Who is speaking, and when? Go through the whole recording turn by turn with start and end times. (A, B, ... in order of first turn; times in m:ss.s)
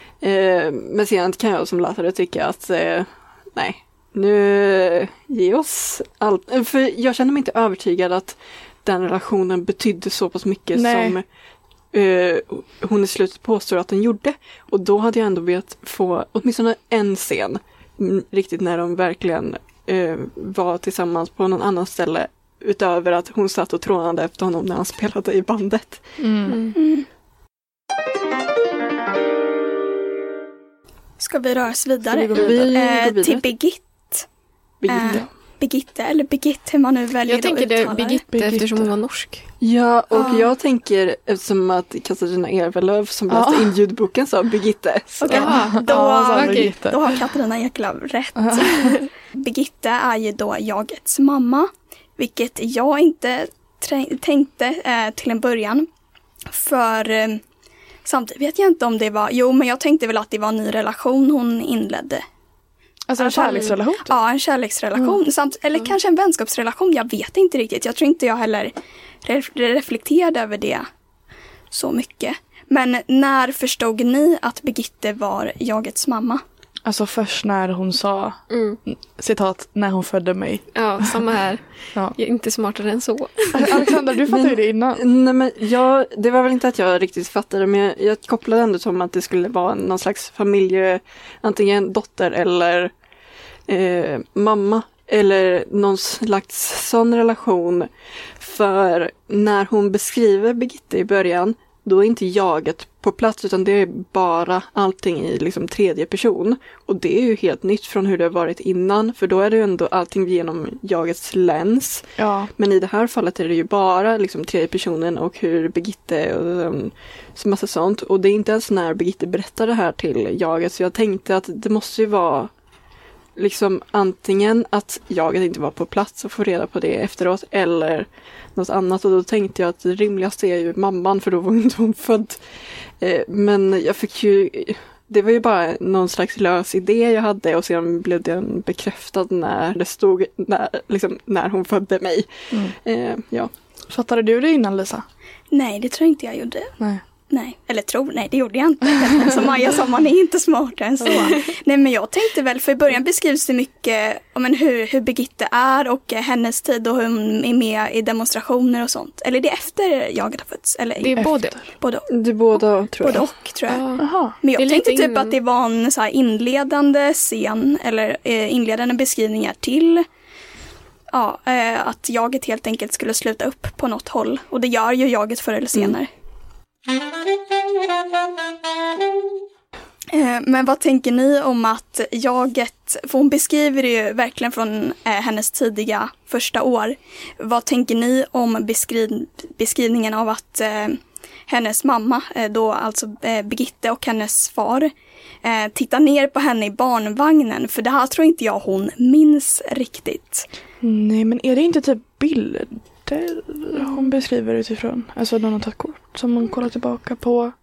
0:00.2-0:11.2 A
0:10.7-0:11.2 B
0:11.9-0:26.2 A
0:26.2-0:26.7 B
0:26.5-0:26.8 C
0:26.8-0:27.1 D
0:31.2-0:34.3 D
0:32.1-0:32.6 B
0:32.3-0:33.5 A
0:34.8-0:35.3 A
0:34.9-0:38.2 D
0:37.2-0:39.6 C
0:38.3-0:39.0 B
0:39.6-0:45.6 A
0:40.1-0:40.5 D
0:43.3-0:43.8 B
0:45.2-0:55.9 D
0:45.3-0:46.8 C
0:45.3-0:47.0 B
0:48.4-0:49.0 B
0:56.5-0:57.4 D
0:58.0-1:02.2 D
1:03.1-1:04.1 B
1:03.2-1:10.9 D
1:11.7-1:16.4 D
1:16.8-1:21.1 B
1:18.5-1:18.8 C
1:20.7-1:24.0 C
1:23.5-1:25.0 B
1:24.3-1:32.9 A
1:33.7-2:02.5 A
1:52.2-1:52.5 B
2:03.4-2:12.4 A
2:13.0-2:23.5 A
2:23.9-2:25.0 B
2:25.5-2:26.8 D
2:27.3-2:50.1 D
2:31.1-2:31.5 C
2:41.0-2:41.8 C
2:41.2-2:41.6 B
2:42.1-2:43.2 A
2:43.7-2:45.4 C
2:44.0-2:44.4 B
2:51.1-2:56.1 D
3:00.1-3:14.9 D
3:15.4-3:20.5 D
3:20.8-3:27.5 B